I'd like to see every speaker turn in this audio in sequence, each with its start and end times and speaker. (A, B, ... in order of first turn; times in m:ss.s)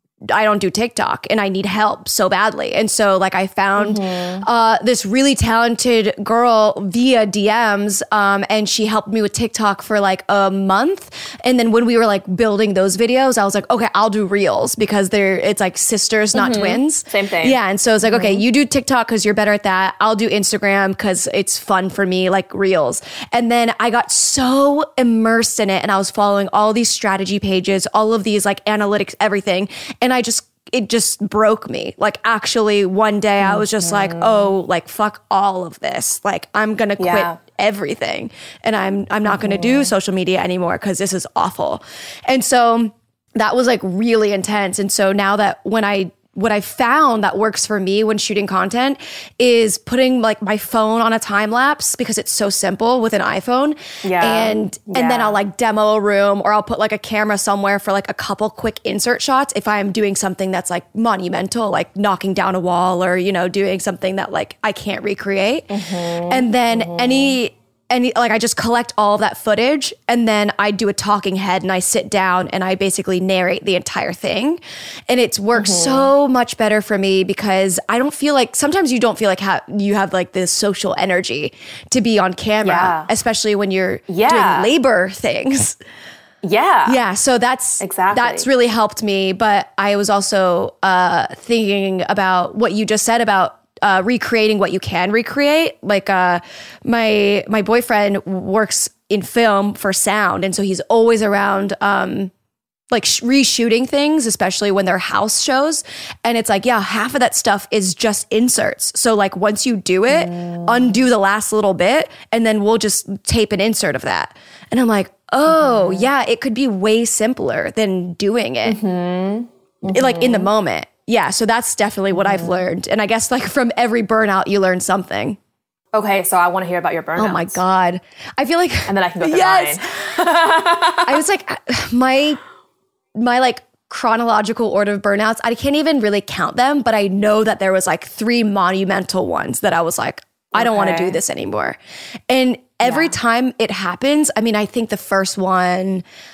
0:00.3-1:25.8 A
0:03.8-0:04.4 B
0:16.3-0:18.4 B
0:33.4-0:34.5 B
0:37.0-0:37.4 B
0:39.3-0:39.9 B
0:54.0-0:55.4 B
1:05.7-1:07.4 B
1:15.5-1:16.1 B
1:22.6-1:23.1 B
1:24.1-1:24.7 B
1:26.4-1:27.0 B
1:26.9-1:42.3 A
1:27.8-1:28.5 B
1:42.9-1:58.8 A
1:50.1-1:51.0 B
1:55.5-1:56.1 B
1:58.6-2:00.5 B
1:59.9-2:05.4 A
2:02.1-2:02.6 B
2:05.9-2:07.6 B
2:07.2-2:09.8 A
2:08.9-2:11.2 B
2:11.0-2:12.4 A
2:13.1-2:21.8 A
2:20.5-2:21.2 B
2:22.3-2:26.0 A
2:22.8-2:23.1 B